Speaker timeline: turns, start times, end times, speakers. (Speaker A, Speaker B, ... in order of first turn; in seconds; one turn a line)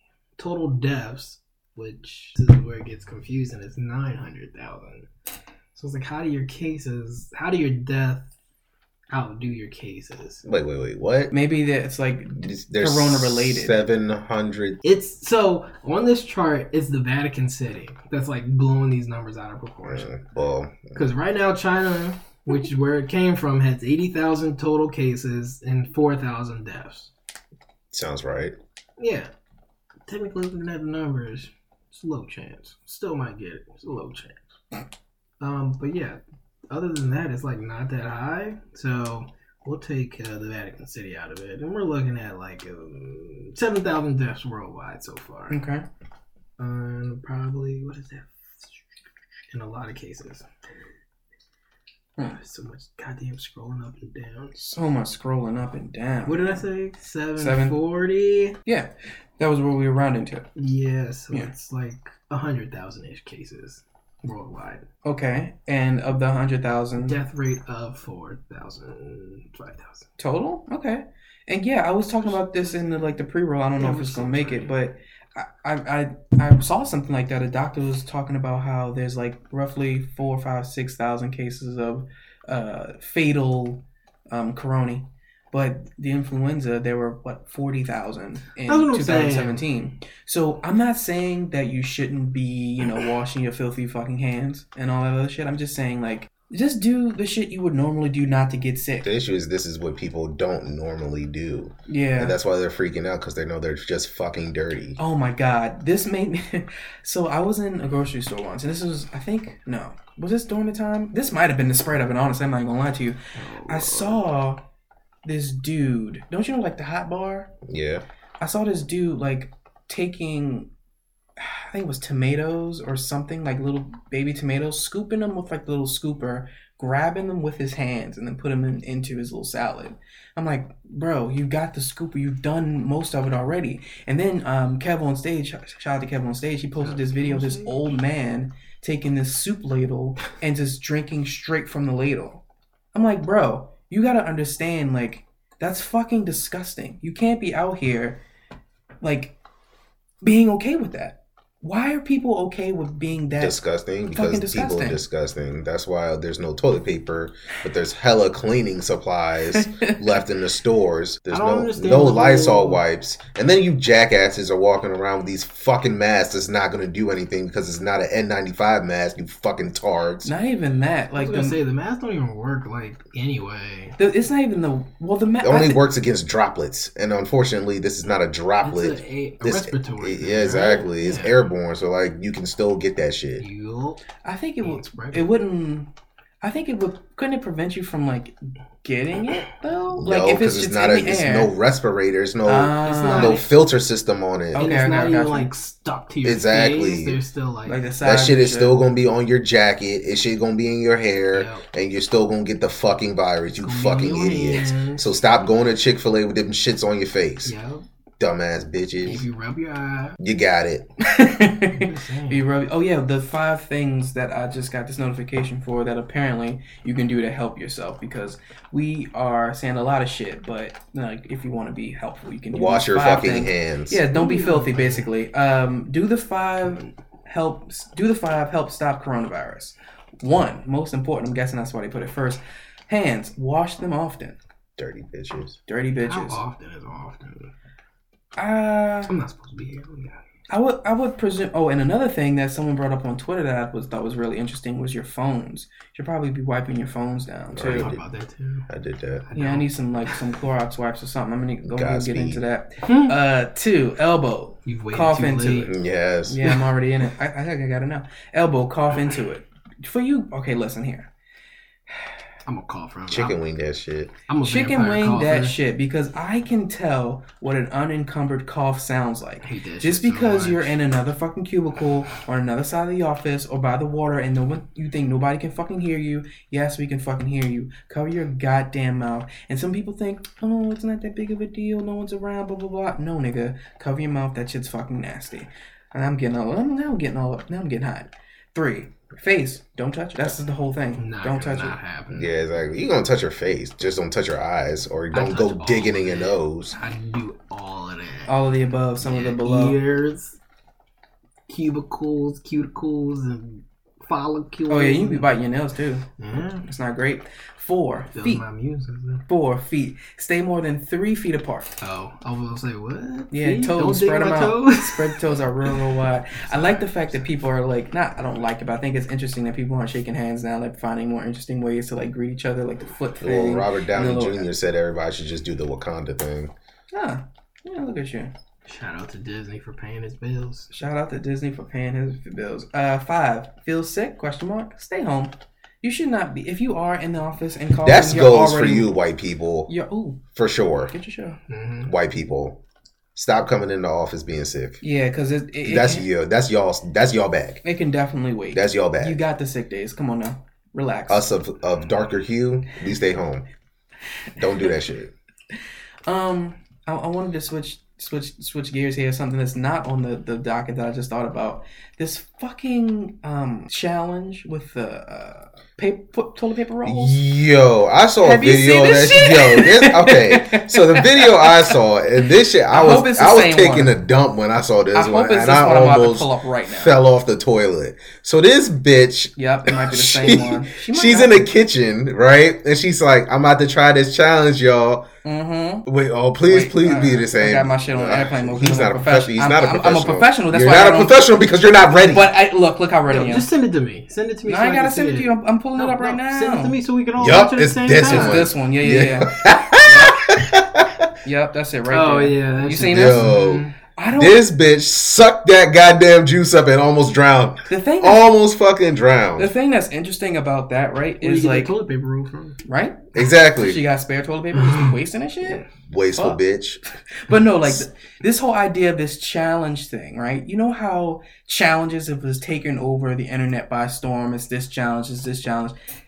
Speaker A: 0.4-5.1
Speaker A: 5.7-8.3
Speaker A: 9.1-10.4
Speaker B: 10.4-11.3
Speaker C: 11.3-13.8
Speaker B: 12.4-14.8
Speaker A: 14.8-20.2
Speaker B: 19.8-21.1
Speaker A: 20.9-27.1
Speaker B: 27.9-28.5
Speaker A: 29.0-29.3
Speaker A: 30.1-34.4
Speaker A: 35.4-36.2
Speaker A: 36.7-45.6
Speaker C: 45.5-45.8
Speaker A: 46.6-48.8
Speaker A: 49.5-50.5
Speaker A: 52.2-54.5
Speaker C: 54.5-56.6
Speaker A: 56.2-58.6
Speaker C: 57.4-57.8
Speaker C: 58.6-60.5
Speaker A: 60.6-64.8
Speaker C: 65.0-67.2
Speaker A: 67.0-70.1
Speaker C: 70.2-99.1
Speaker A: 72.2-73.0
Speaker A: 73.8-74.7
Speaker A: 88.7-89.6
Speaker B: 99.0-105.0
Speaker C: 101.9-102.4
Speaker C: 105.0-114.6
Speaker A: 113.4-114.2
Speaker C: 115.2-117.5
Speaker B: 117.7-118.0
Speaker C: 118.4-120.7
Speaker C: 121.4-142.4
Speaker A: 136.8-137.9
Speaker C: 142.9-148.2
Speaker C: 149.0-149.3
Speaker C: 150.2-153.6
Speaker B: 153.4-170.3
Speaker C: 154.1-155.0
Speaker C: 159.5-160.2
Speaker A: 161.3-162.8
Speaker C: 170.2-171.6
Speaker A: 171.1-174.0
Speaker C: 174.0-175.8
Speaker B: 175.4-183.4
Speaker A: 178.6-181.3
Speaker A: 183.4-184.0
Speaker C: 184.2-185.9
Speaker A: 184.6-185.3
Speaker C: 186.4-191.5
Speaker B: 190.0-194.7
Speaker C: 192.4-193.4
Speaker A: 192.8-193.4
Speaker C: 194.5-195.5
Speaker A: 194.5-197.8
Speaker B: 196.2-197.2
Speaker C: 197.7-198.8
Speaker B: 198.0-207.5
Speaker A: 201.3-201.6
Speaker A: 203.6-205.1
Speaker A: 207.4-207.8
Speaker B: 208.2-209.2
Speaker A: 209.0-210.2
Speaker B: 210.2-210.9
Speaker C: 211.0-234.4
Speaker A: 211.7-212.4
Speaker B: 222.5-224.0
Speaker A: 224.1-225.1
Speaker B: 234.8-235.6
Speaker C: 235.7-236.4
Speaker A: 236.0-237.5
Speaker C: 238.4-239.1
Speaker A: 239.0-240.2
Speaker C: 240.5-247.9
Speaker B: 247.5-248.0
Speaker A: 247.6-248.7
Speaker B: 248.7-249.2
Speaker A: 249.3-250.2
Speaker C: 249.3-255.7
Speaker B: 251.6-252.4
Speaker A: 252.9-253.1
Speaker A: 254.7-255.7
Speaker B: 255.7-256.4
Speaker C: 256.3-261.1
Speaker A: 262.4-263.4
Speaker B: 263.1-264.1
Speaker A: 264.3-265.6
Speaker C: 264.4-291.8
Speaker A: 269.4-270.8
Speaker A: 291.0-292.3
Speaker B: 292.1-296.7
Speaker A: 295.1-298.3
Speaker C: 298.3-299.8
Speaker A: 299.0-300.4
Speaker A: 301.5-305.3
Speaker C: 304.7-306.0
Speaker A: 306.2-306.7
Speaker C: 306.6-308.4
Speaker A: 308.1-309.2
Speaker C: 309.3-311.7
Speaker A: 311.8-315.8
Speaker C: 313.3-324.5
Speaker A: 316.4-317.2
Speaker B: 323.2-326.5
Speaker C: 326.9-328.3
Speaker A: 328.6-330.7
Speaker C: 330.7-338.9
Speaker B: 337.8-339.7
Speaker C: 339.7-340.2
Speaker B: 340.3-340.9
Speaker C: 340.9-341.4
Speaker A: 341.5-341.9
Speaker B: 341.8-342.6
Speaker B: 343.1-344.8
Speaker C: 344.8-346.1
Speaker B: 345.6-347.6
Speaker C: 347.6-351.2
Speaker B: 348.5-349.2
Speaker B: 351.1-353.4
Speaker B: 354.4-355.1
Speaker C: 356.1-367.2
Speaker B: 366.8-385.1
Speaker C: 368.2-371.7
Speaker C: 372.7-373.9
Speaker C: 374.9-377.0
Speaker C: 379.4-381.4
Speaker C: 385.2-385.9
Speaker B: 385.9-392.3
Speaker C: 386.5-391.2
Speaker C: 392.1-393.5
Speaker A: 393.1-398.5
Speaker C: 394.5-396.7
Speaker B: 397.2-401.1
Speaker C: 398.0-400.2
Speaker C: 401.2-403.3
Speaker A: 401.9-403.7
Speaker B: 402.9-409.5
Speaker C: 403.9-404.4
Speaker C: 407.7-408.3
Speaker C: 409.4-411.7
Speaker A: 411.2-412.6
Speaker C: 412.6-415.6
Speaker B: 413.1-413.8
Speaker A: 414.6-414.9
Speaker B: 415.6-416.8
Speaker C: 417.1-425.7